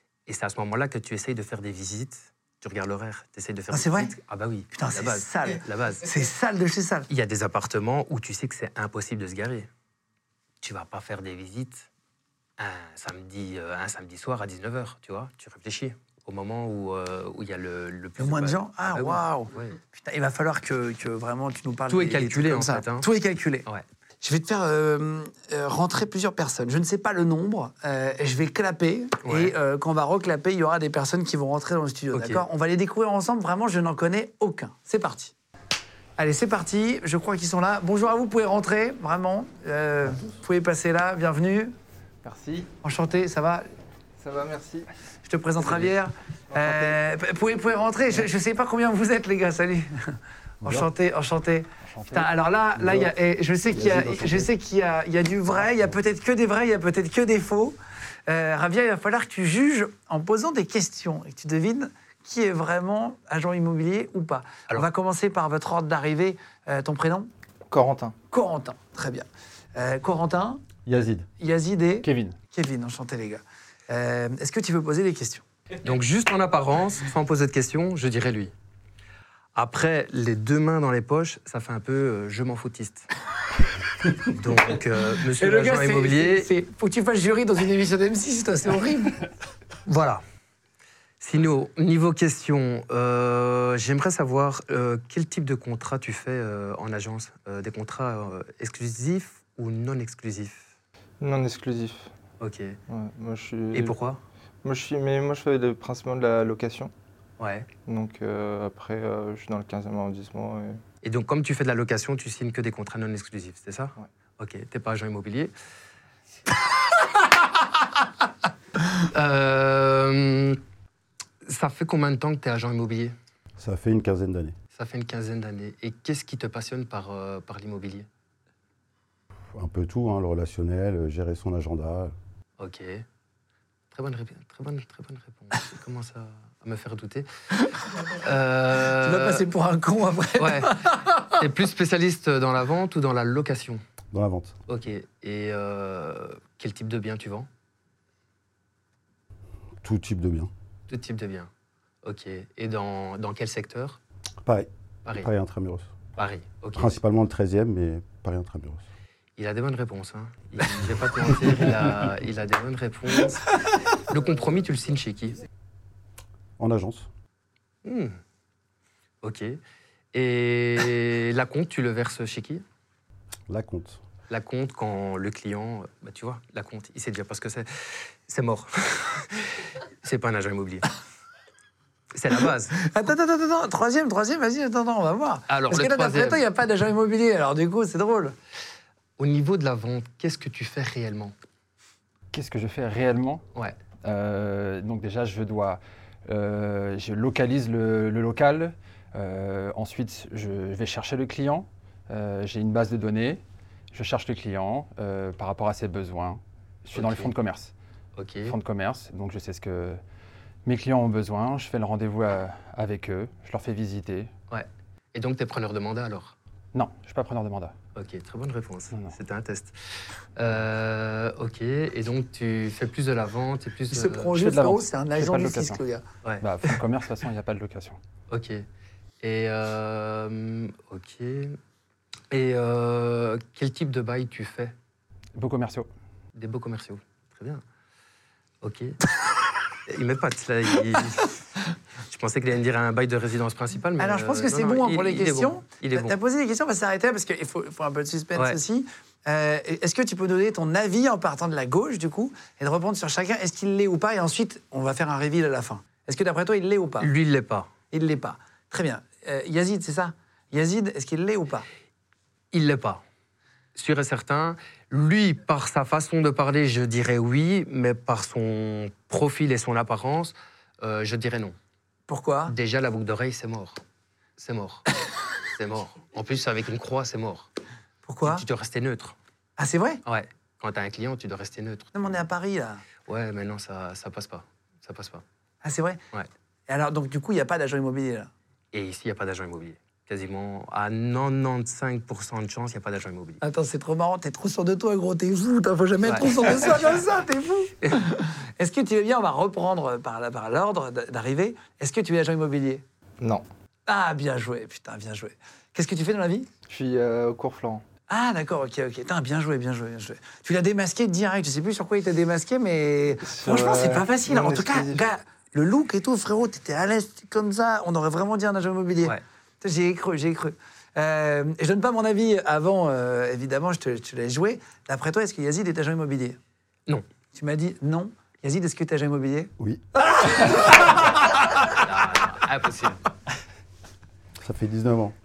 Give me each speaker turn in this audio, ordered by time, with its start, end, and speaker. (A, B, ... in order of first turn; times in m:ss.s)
0:00.3-0:06.1 A
0:03.7-0:04.1 B
0:04.7-0:07.1 B
0:07.1-0:09.7 A
0:10.6-0:11.9 A
0:12.6-0:19.8 A
0:18.2-0:23.7 B
0:21.9-0:23.1 A
0:24.2-0:35.3 B
0:29.2-0:29.6 A
0:32.1-0:32.4 A
0:36.2-0:41.7 B
0:42.2-0:42.7 C
0:42.8-0:43.6 B
0:44.2-0:44.9 C
0:45.2-1:07.3 B
0:45.6-0:45.9 C
0:46.5-0:47.0 C
0:51.9-0:52.3 D
0:52.8-0:53.1 E
0:53.7-0:54.5 E
1:07.7-1:08.2 C
1:08.3-1:10.6 B
1:10.9-1:11.3 E
1:11.4-1:15.4 B
1:12.0-1:12.4 D
1:15.8-1:18.5 A
1:19.6-1:23.1 A
1:24.2-1:26.5 A
1:25.4-1:29.2 B
1:29.9-1:30.2 A
1:31.2-1:40.7 A
1:41.2-1:42.1 C
1:42.4-1:42.8 A
1:42.9-1:44.0 C
1:43.7-1:44.2 A
1:44.6-1:46.9 C
1:47.4-1:47.7 A
1:47.9-1:50.8 C
1:51.0-1:55.5 A
1:59.0-2:00.6 A
2:01.4-2:03.1 A
2:03.6-2:04.6 E
2:04.7-2:08.1 A
2:09.5-2:12.1 E
2:12.6-2:13.0 A
2:13.9-2:17.3 A
2:18.1-2:19.4 A
2:18.9-2:21.4 B
2:20.4-2:20.8 A
2:21.4-2:23.8 A
2:24.1-2:24.5 E
2:24.7-2:27.5 A
2:29.8-2:30.5 E
2:30.9-2:31.5 A
2:32.0-2:34.0 A
2:34.4-2:35.9 E
2:36.2-2:36.9 A
2:36.8-2:38.8 E
2:39.4-2:45.4 A
2:46.6-2:47.1 E
2:47.8-2:48.2 A
2:49.2-2:49.6 A
2:50.1-2:52.6 A
2:53.5-2:54.0 E
2:54.3-3:00.9 A
3:02.1-3:02.8 A
3:02.8-3:08.4 B
3:05.5-3:06.4 A
3:09.2-3:11.4 A
3:12.3-3:13.4 D
3:14.0-3:23.4 D
3:23.9-3:27.7 D
3:26.9-3:27.3 A
3:28.2-3:28.6 A
3:28.5-3:30.0 D
3:30.6-3:34.3 D
3:34.5-3:36.4 A
3:36.7-3:37.8 D
3:38.0-3:39.8 A
3:40.4-3:44.3 A
3:43.9-3:46.0 B
3:44.3-3:45.8 D
3:46.4-3:48.0 D
3:48.3-3:48.6 A
3:49.2-3:51.6 A
3:52.3-3:54.7 A
3:55.4-3:55.9 D
3:56.4-3:57.6 A
3:58.6-3:59.0 A
3:59.9-4:01.4 A
4:02.1-4:06.2 A
4:04.0-4:17.1 B
4:17.0-4:17.7 A
4:17.9-4:21.7 B
4:22.5-4:23.0 A
4:23.8-4:31.6 A
4:32.1-4:32.5 B
4:32.5-4:33.8 A
4:34.4-4:34.9 A
4:35.5-4:37.5 A
4:38.1-4:38.4 B
4:38.2-4:39.2 A
4:39.6-4:40.0 B
4:40.0-4:42.2 A
4:42.0-4:42.8 B
4:43.1-4:45.2 A
4:45.6-4:46.0 B
4:46.7-4:48.3 B
4:48.7-4:53.4 A
4:53.4-5:02.8 B
4:56.0-4:56.7 A
5:03.9-5:06.5 B
5:06.7-5:07.8 C
5:08.1-5:26.4 B
5:13.2-5:15.1 C
5:27.3-5:31.8 B
5:31.7-5:33.0 A
5:34.4-5:35.2 E